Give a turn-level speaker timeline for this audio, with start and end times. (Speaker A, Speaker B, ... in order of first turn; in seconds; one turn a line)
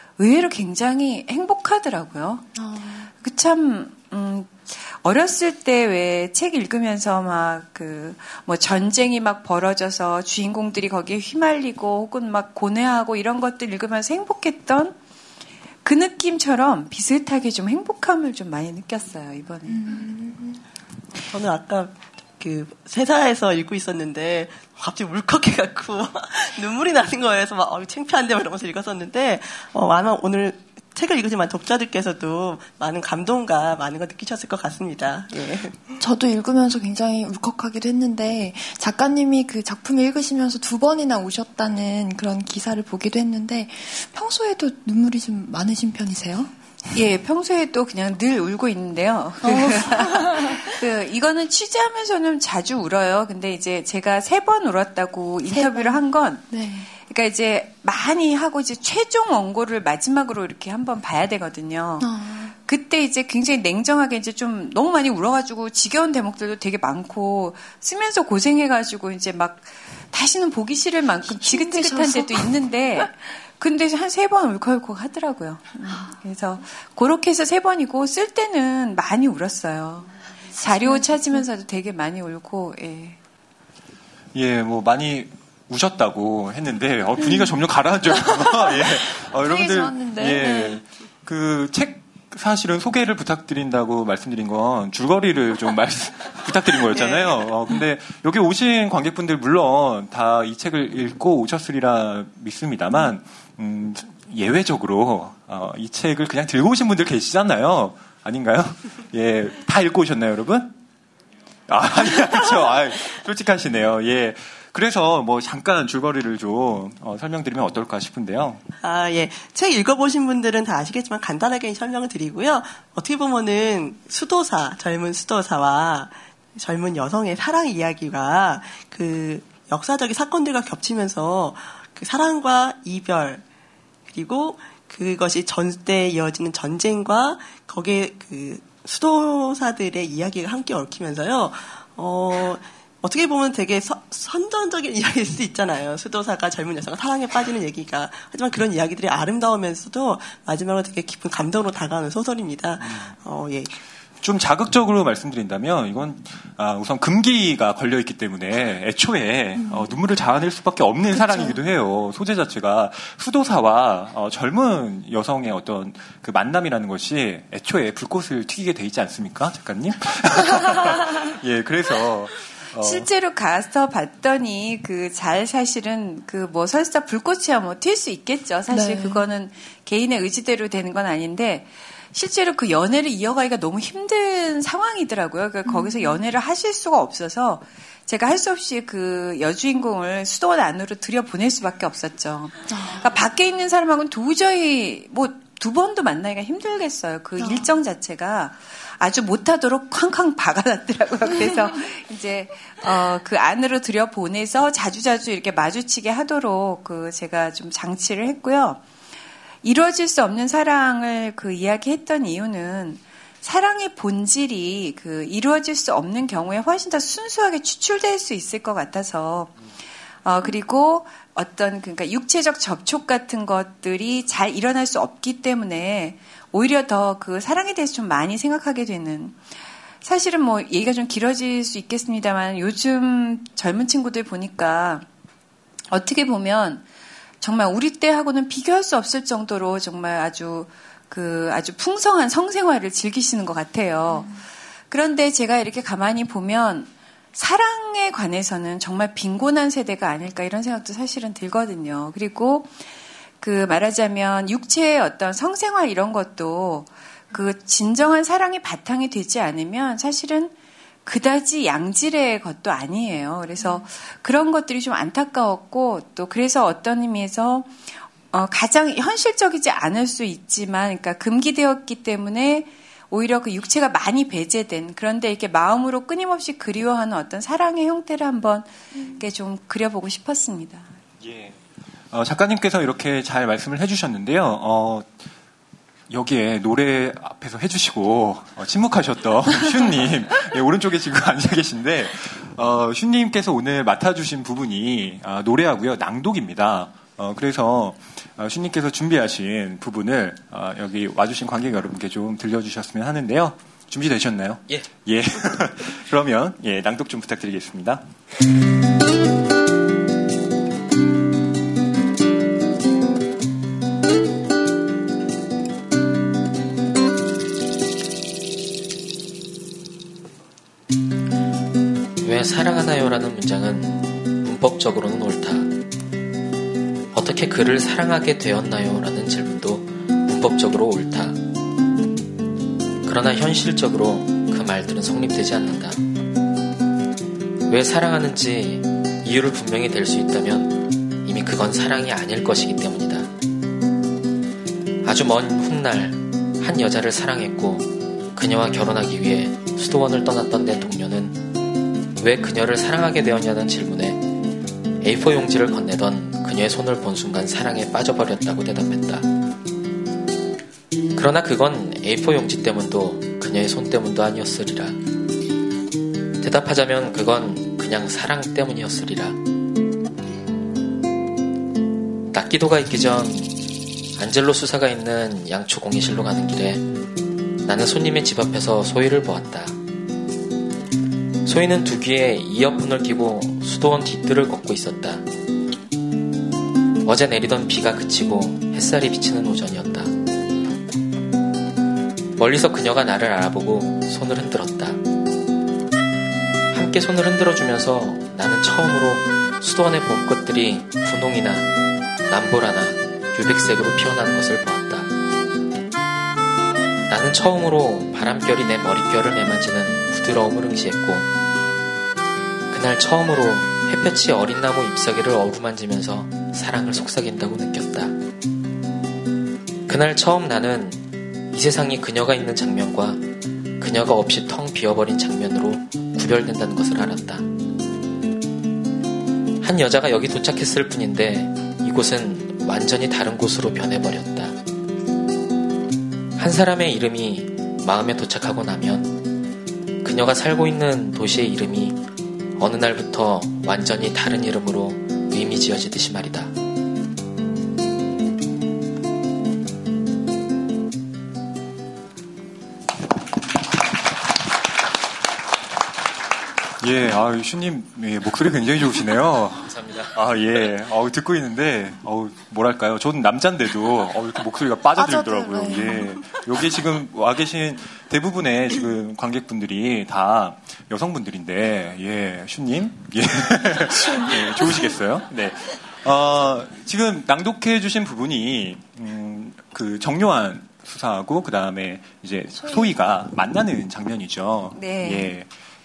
Speaker A: 0.2-2.5
Speaker B: 2.5-3.1
Speaker A: 3.1-14.9
Speaker A: 15.8-19.9
Speaker B: 19.7-20.6
Speaker C: 21.3-36.0
Speaker B: 36.0-46.5
Speaker A: 46.9-83.2
Speaker B: 49.4-50.7
Speaker B: 55.5-56.9
Speaker B: 62.0-62.5
Speaker B: 71.3-72.5
Speaker B: 80.6-81.4
Speaker D: 84.3-110.7
Speaker B: 87.2-87.5
Speaker B: 88.2-90.8
Speaker C: 96.9-97.4
Speaker D: 111.7-118.6
Speaker C: 118.8-133.4
Speaker C: 134.1-153.7
Speaker D: 154.2-173.1
Speaker B: 161.1-161.6
Speaker A: 172.8-208.8
Speaker B: 178.7-179.2
Speaker B: 185.6-186.2
Speaker B: 192.7-193.1
Speaker B: 197.4-197.6
Speaker A: 209.6-219.5
Speaker A: 220.2-229.4
Speaker A: 230.0-235.0
Speaker A: 235.9-236.8
Speaker A: 237.4-244.3
Speaker A: 244.9-252.7
Speaker A: 253.4-260.5
Speaker A: 261.1-280.9
Speaker D: 281.2-281.6
Speaker D: 282.1-285.1
Speaker D: 286.1-308.0
Speaker E: 322.2-325.7
Speaker E: 327.1-331.4
Speaker E: 333.0-336.0
Speaker E: 337.7-343.3
Speaker E: 345.0-351.4
Speaker E: 352.2-354.2
Speaker E: 355.0-359.2
Speaker E: 361.1-365.0
Speaker E: 366.4-369.4
Speaker E: 372.3-373.6
Speaker E: 374.1-376.9
Speaker E: 377.6-379.8
Speaker E: 381.4-385.2
Speaker E: 387.0-390.1
Speaker E: 392.4-395.0
Speaker E: 396.7-401.7
Speaker E: 402.3-405.1
Speaker E: 407.1-411.3
Speaker E: 412.7-418.1
Speaker E: 419.9-423.2
Speaker E: 423.8-427.4
Speaker E: 429.6-434.6
Speaker E: 436.4-439.2
Speaker E: 440.0-442.0
Speaker E: 442.6-446.5
Speaker D: 456.8-485.5
Speaker E: 459.6-460.1
Speaker B: 464.9-466.2
Speaker B: 474.0-474.7
Speaker B: 482.6-482.9
Speaker A: 484.7-485.3